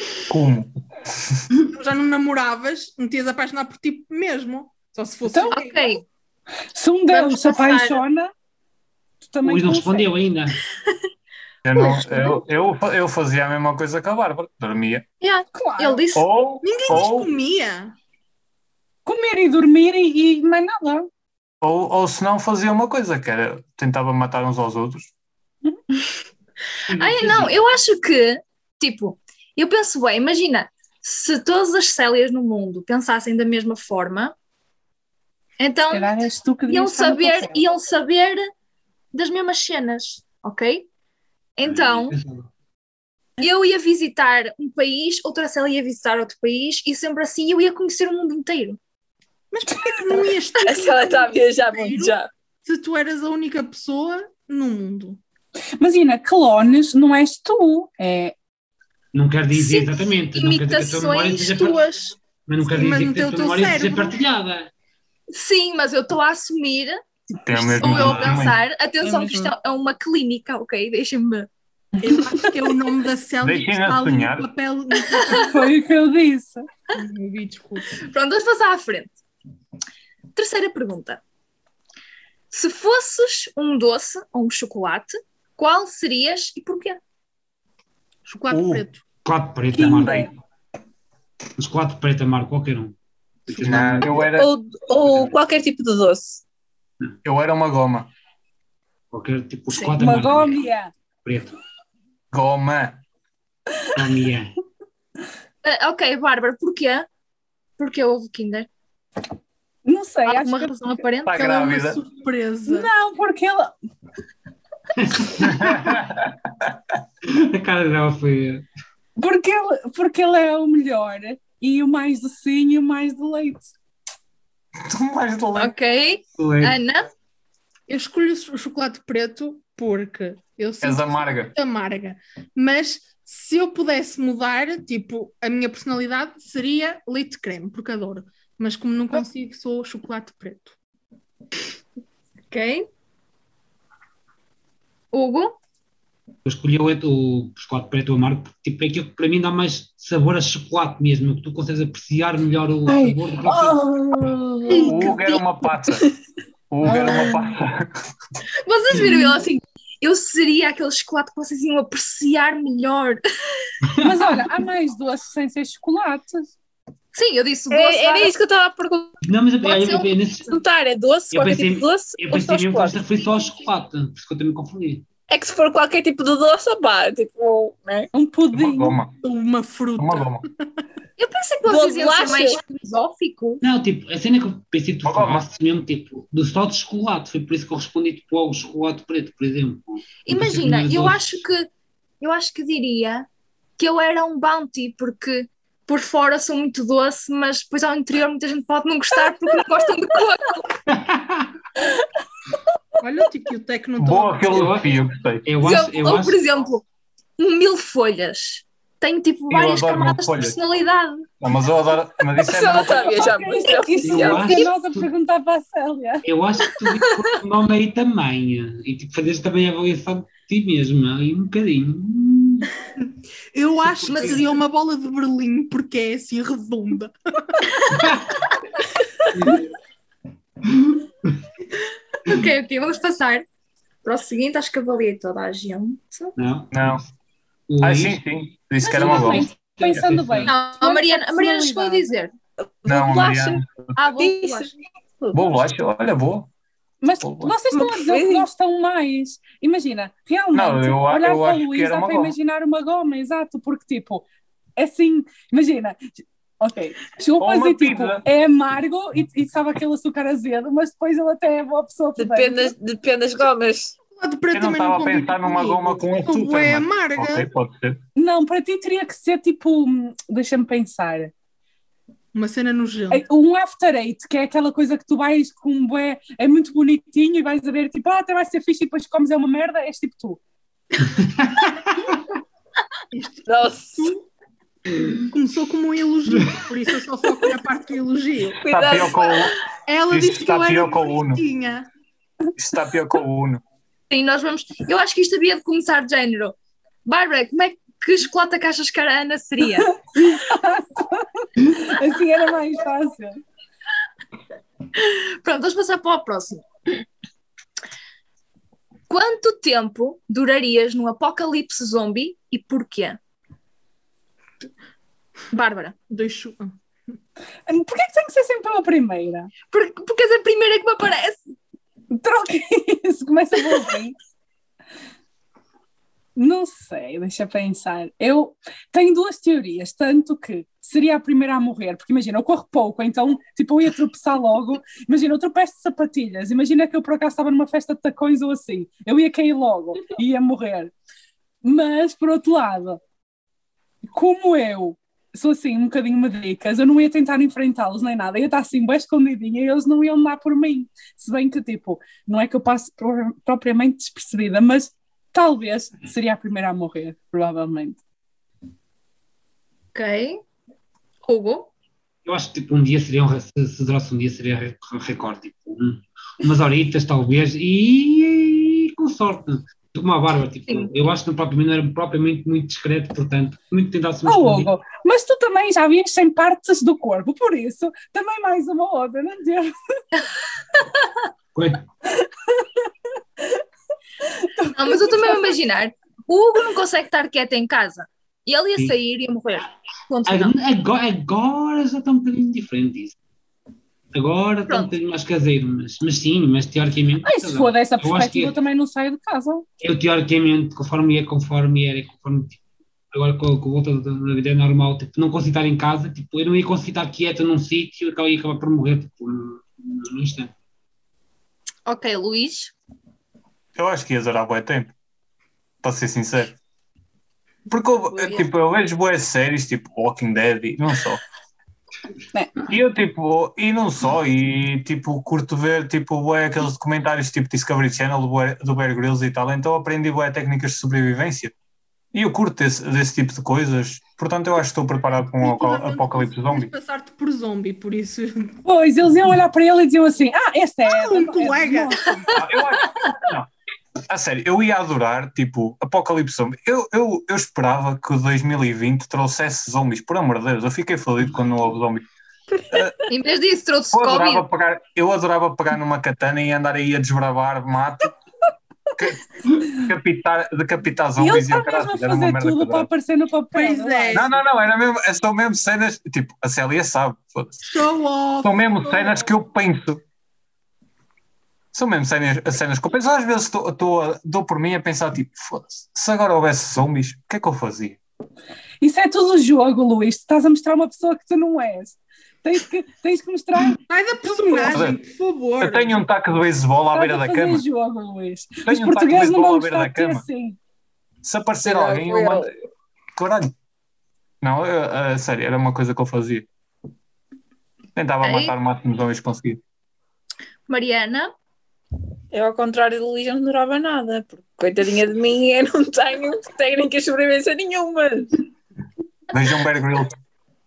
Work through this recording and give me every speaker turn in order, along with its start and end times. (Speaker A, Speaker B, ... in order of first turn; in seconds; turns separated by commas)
Speaker A: 0.3-1.4, Speaker B: 1.7-5.9, Speaker C: 5.3-5.5, Speaker D: 5.5-6.0, Speaker C: 6.7-8.3, Speaker D: 7.1-8.0, Speaker C: 9.2-10.1, Speaker E: 9.4-10.6, Speaker A: 11.6-15.0, Speaker B: 11.8-12.4, Speaker D: 15.2-16.3, Speaker C: 15.5-16.1, Speaker A: 16.1-17.3, Speaker B: 16.6-17.9, Speaker C: 19.1-21.1, Speaker A: 21.6-25.1, Speaker E: 26.9-27.6, Speaker D: 27.0-34.4, Speaker D: 35.6-38.5, Speaker C: 35.9-37.6, Speaker D: 39.1-40.9, Speaker D: 41.6-42.2, Speaker E: 41.6-42.5, Speaker D: 43.4-48.8, Speaker B: 49.5-55.2, Speaker F: 50.1-52.3, Speaker C: 55.8-58.4, Speaker E: 59.1-61.8, Speaker D: 59.5-62.1, Speaker E: 62.5-64.7, Speaker B: 62.7-64.2, Speaker D: 65.3-67.0, Speaker A: 67.5-68.6, Speaker D: 67.5-71.5, Speaker E: 67.8-68.5, Speaker F: 69.0-69.5, Speaker B: 72.0-75.6, Speaker A: 73.4-74.5, Speaker D: 75.2-75.5, Speaker C: 75.4-76.7, Speaker B: 76.9-78.0, Speaker D: 78.1-79.1, Speaker D: 80.4-81.2, Speaker D: 82.5-87.0, Speaker B: 88.3-89.0, Speaker A: 88.5-88.8, Speaker E: 89.2-90.3, Speaker C: 89.7-90.3, Speaker E: 91.6-93.0, Speaker E: 93.5-94.2, Speaker B: 93.5-94.2, Speaker A: 93.6-94.5, Speaker F: 94.3-96.4, Speaker A: 97.2-98.1, Speaker E: 99.1-100.6, Speaker C: 100.0-100.9, Speaker E: 101.2-101.6, Speaker A: 102.3-103.0, Speaker E: 104.0-104.5, Speaker D: 105.6-107.1, Speaker D: 107.8-108.7, Speaker C: 109.8-110.9, Speaker D: 110.3-111.3, Speaker A: 111.3-112.0, Speaker B: 111.3-112.9, Speaker C: 112.7-113.7, Speaker E: 115.0-116.0, Speaker A: 115.4-116.3, Speaker E: 117.2-118.7, Speaker C: 119.2-123.7, Speaker A: 124.8-125.7, Speaker D: 125.6-127.1, Speaker E: 126.4-126.8, Speaker B: 127.9-140.8, Speaker A: 130.8-131.6, Speaker D: 142.5-142.8, Speaker D: 145.1-145.6, Speaker E: 146.4-153.8, Speaker C: 152.9-155.3, Speaker D: 154.7-155.2, Speaker A: 154.8-156.1, Speaker A: 156.7-157.9, Speaker C: 156.8-157.4, Speaker D: 158.7-163.2, Speaker E: 163.9-164.4, Speaker C: 164.0-166.5, Speaker D: 167.1-168.3, Speaker F: 167.7-169.2, Speaker E: 169.2-170.6, Speaker D: 169.6-170.1, Speaker F: 170.5-173.2, Speaker E: 171.3-175.1, Speaker F: 175.3-178.1, Speaker C: 178.1-179.0, Speaker A: 178.5-179.1, Speaker B: 179.2-180.4, Speaker A: 180.0-180.4, Speaker D: 181.2-183.6, Speaker F: 181.7-182.6, Speaker E: 183.6-191.4, Speaker A: 185.0-185.4, Speaker D: 190.2-193.3, Speaker D: 193.8-200.8, Speaker E: 200.9-201.5, Speaker B: 203.0-204.7, Speaker A: 204.0-205.5, Speaker E: 204.5-206.4, Speaker D: 205.6-206.8, Speaker D: 207.4-211.3, Speaker A: 209.5-210.6, Speaker A: 211.4-213.3, Speaker F: 212.4-214.7, Speaker C: 212.8-216.3, Speaker E: 214.0-215.1, Speaker E: 216.2-222.7, Speaker D: 216.7-217.3, Speaker B: 223.5-227.9, Speaker E: 224.0-224.4, Speaker D: 224.1-224.4, Speaker E: 229.3-229.6, Speaker D: 232.2-233.5, Speaker D: 234.0-236.3, Speaker E: 236.4-237.1, Speaker A: 236.7-237.0, Speaker E: 237.7-238.2, Speaker A: 237.8-239.5, Speaker C: 238.8-242.1, Speaker E: 238.9-240.5, Speaker D: 240.5-242.3, Speaker F: 242.7-245.5, Speaker A: 242.9-243.7, Speaker D: 244.0-244.7, Speaker A: 245.3-246.5, Speaker C: 247.0-254.3, Speaker A: 247.2-247.6, Speaker F: 247.7-248.5, Speaker A: 250.5-252.3, Speaker C: 254.8-262.7, Speaker A: 257.4-258.2, Speaker F: 262.2-264.0, Speaker B: 264.1-267.5, Speaker A: 264.5-268.0, Speaker C: 268.2-271.3, Speaker B: 272.3-273.3, Speaker C: 273.1-280.4, Speaker E: 281.1-281.7, Speaker B: 283.1-283.5, Speaker F: 283.5-284.1, Speaker B: 284.0-284.2, Speaker B: 285.3-288.6, Speaker F: 288.6-289.6, Speaker A: 288.7-289.6, Speaker B: 289.9-291.9, Speaker A: 290.1-291.4, Speaker A: 292.6-293.6, Speaker D: 294.1-299.9, Speaker C: 299.8-303.4, Speaker D: 305.0-306.7, Speaker D: 309.1-313.2, Speaker D: 315.5-316.0, Speaker B: 316.1-316.7, Speaker C: 317.7-319.5, Speaker D: 319.7-321.5, Speaker C: 322.1-324.2, Speaker C: 326.4-340.9, Speaker C: 341.6-343.0, Speaker C: 344.1-358.0, Speaker D: 359.9-360.4, Speaker D: 361.3-361.7, Speaker E: 362.2-374.7, Speaker C: 374.3-380.0, Speaker D: 380.8-381.1, Speaker E: 381.6-381.9, Speaker C: 382.2-382.8, Speaker C: 384.3-385.5, Speaker D: 384.8-390.6, Speaker E: 390.3-393.1, Speaker E: 394.1-398.6, Speaker C: 397.2-399.6, Speaker E: 399.8-402.6, Speaker E: 403.1-410.5, Speaker D: 411.9-412.7, Speaker A: 413.8-414.9, Speaker A: 415.8-416.6, Speaker A: 417.7-421.2, Speaker D: 418.1-418.5, Speaker C: 422.3-422.6, Speaker A: 422.7-431.5, Speaker A: 432.1-436.7, Speaker B: 435.4-438.6, Speaker C: 438.6-442.3, Speaker B: 440.9-442.2, Speaker A: 442.3-443.5, Speaker A: 444.1-452.1, Speaker F: 452.6-452.8, Speaker D: 453.1-454.5, Speaker A: 453.9-458.1, Speaker A: 459.0-462.9, Speaker C: 461.2-464.3, Speaker B: 463.5-464.4, Speaker A: 464.1-467.6, Speaker B: 467.6-469.3, Speaker A: 468.4-470.0, Speaker A: 471.7-478.0, Speaker C: 478.8-484.9, Speaker B: 483.9-485.9, Speaker A: 484.7-485.0, Speaker A: 485.6-487.6, Speaker C: 486.9-490.6, Speaker A: 488.7-490.2, Speaker A: 491.2-492.5, Speaker F: 491.6-492.5, Speaker A: 493.2-493.5, Speaker A: 494.4-496.5, Speaker A: 498.0-499.6, Speaker D: 498.2-498.6, Speaker D: 500.7-501.3, Speaker F: 502.3-508.3, Speaker A: 509.3-510.1